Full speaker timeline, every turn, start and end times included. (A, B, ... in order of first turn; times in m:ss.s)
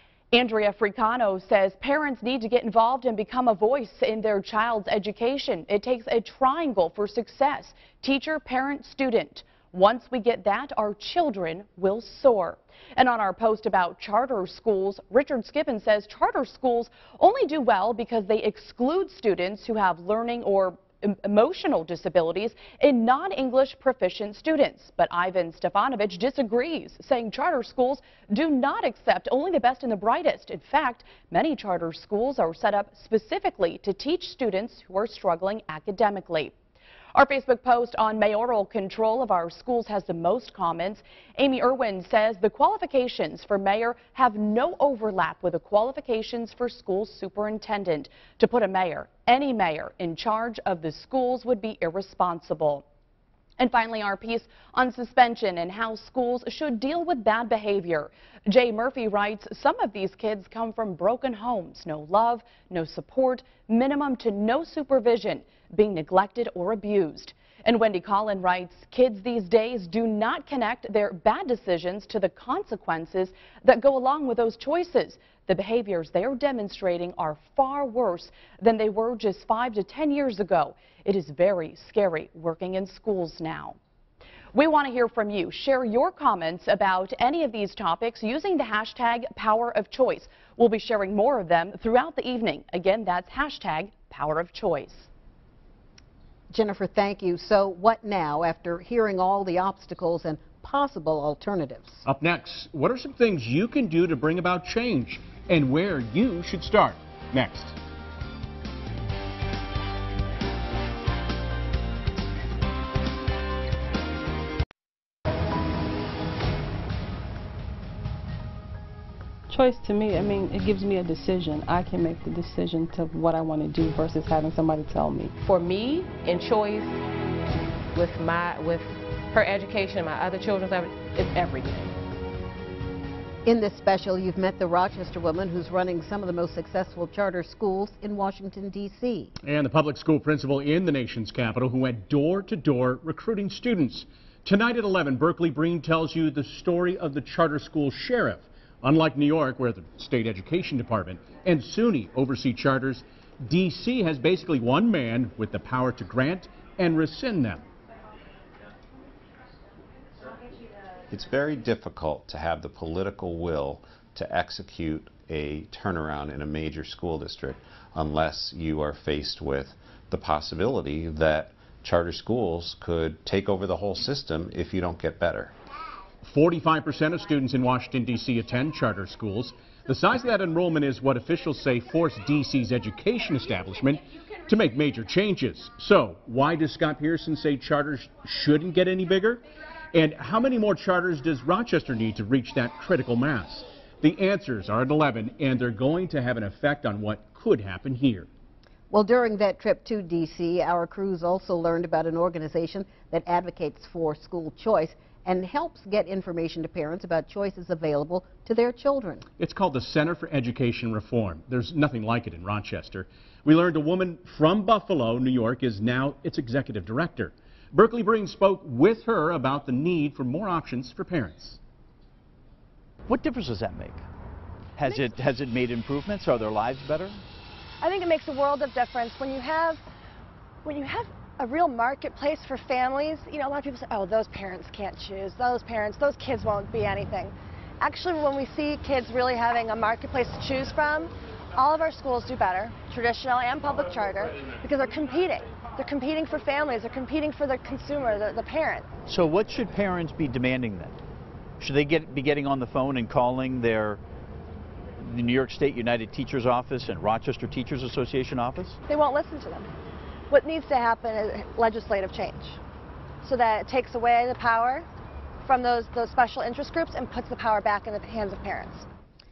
0:00.3-0:36.5 A
0:37.2-0:52.8 A
0:53.6-1:23.8 A
1:24.5-1:35.1 A
1:36.5-1:42.0 B
1:42.1-1:47.8 C
1:59.5-2:05.3 D
2:05.4-2:07.0 E
2:07.9-2:12.0 E
2:13.4-2:19.3 B
2:19.4-2:37.6 C
2:41.1-2:55.5 F
2:56.2-3:18.3 C
3:18.9-3:29.3 B
3:29.4-3:41.6 C
3:43.1-3:44.0 G
3:44.8-3:47.2 G
3:47.8-3:49.8 H
3:50.6-4:08.9 H
4:09.1-4:11.0 G
4:11.6-4:14.0 G
4:15.0-4:18.8 G
4:18.9-4:19.7 H
4:20.3-4:22.6 H
4:23.2-4:24.9 H
4:25.4-4:28.9 H